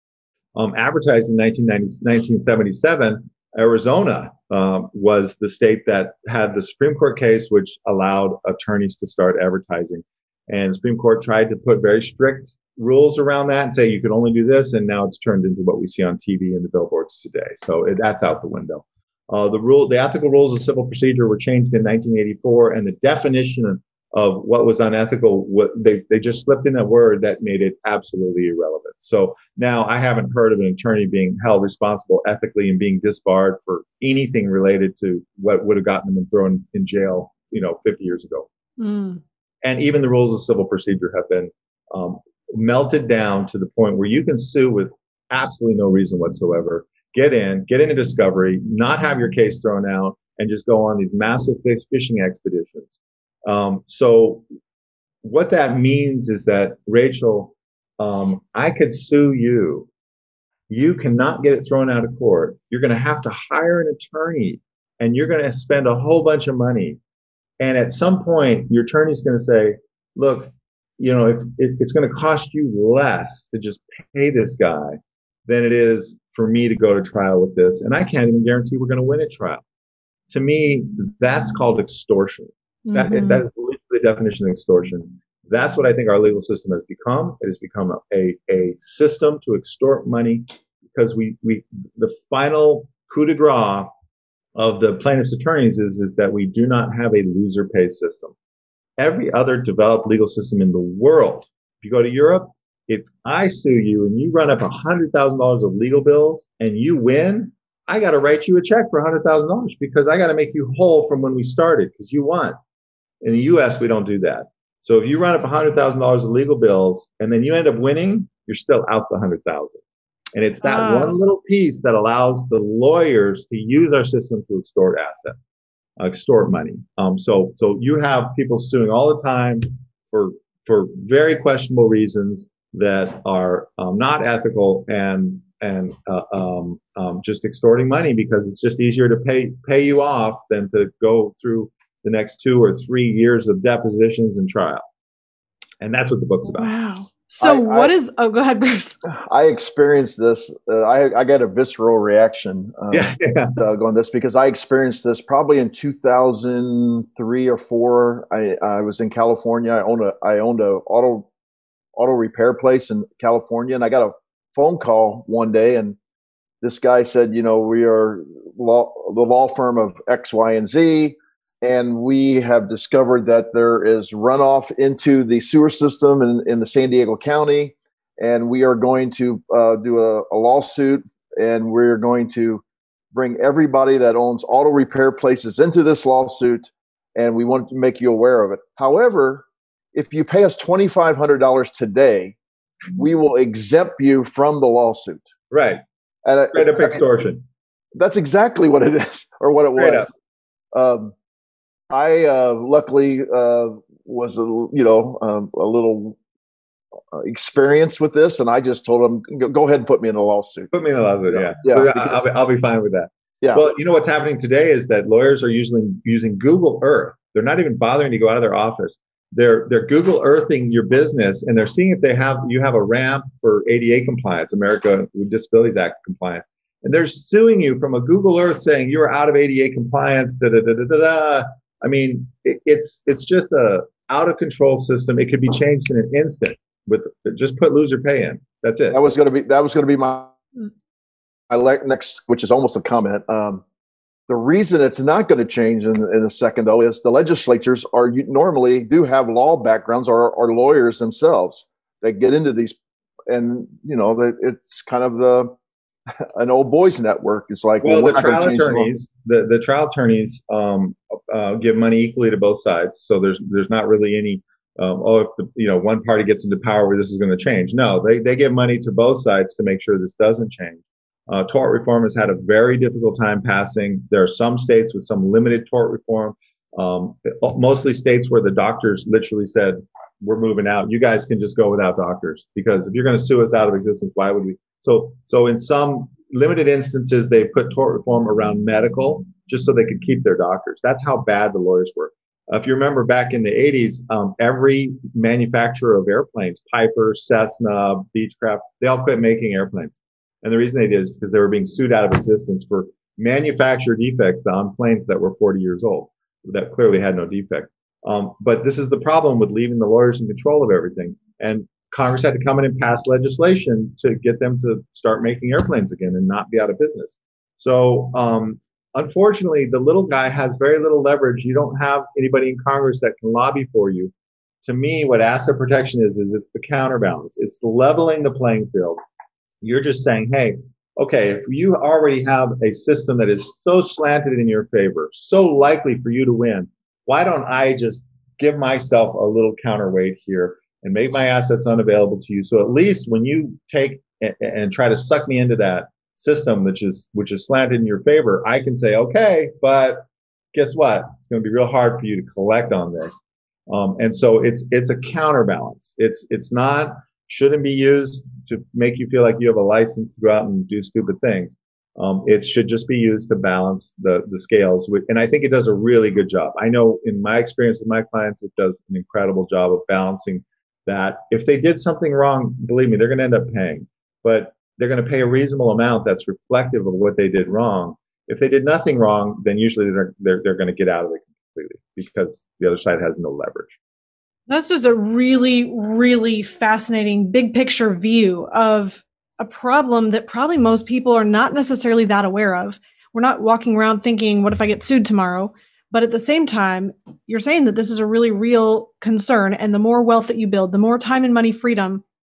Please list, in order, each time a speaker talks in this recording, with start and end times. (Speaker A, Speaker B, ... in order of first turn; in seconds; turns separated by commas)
Speaker A: 0.5-38.5, Speaker B: 38.8-39.2, Speaker A: 39.6-54.4, Speaker A: 55.2-59.9, Speaker A: 60.7-67.0, Speaker A: 67.6-79.6, Speaker A: 80.3-93.9, Speaker B: 82.8-83.4, Speaker A: 94.5-98.3, Speaker A: 99.0-112.5, Speaker A: 113.2-119.8, Speaker A: 120.3-125.3, Speaker B: 120.6-121.2, Speaker A: 126.0-144.8, Speaker A: 145.8-146.7, Speaker B: 146.5-149.0, Speaker C: 147.4-147.9, Speaker C: 149.0-161.3, Speaker A: 152.9-153.5, Speaker C: 161.9-166.0, Speaker C: 166.6-182.6, Speaker C: 183.1-192.4, Speaker C: 192.9-195.3, Speaker A: 195.5-195.8, Speaker C: 196.2-197.0, Speaker A: 196.5-197.4, Speaker C: 197.9-200.1, Speaker A: 199.8-200.1, Speaker C: 200.7-201.1, Speaker C: 201.9-206.2, Speaker C: 207.1-210.7, Speaker A: 210.7-239.0, Speaker C: 211.3-212.2, Speaker C: 213.4-213.7, Speaker C: 238.9-240.3, Speaker C: 241.5-243.6, Speaker C: 244.3-252.8, Speaker C: 253.3-255.5, Speaker C: 256.3-258.9, Speaker A: 257.8-324.1, Speaker A: 324.6-329.0, Speaker A: 329.6-383.8, Speaker B: 384.5-402.0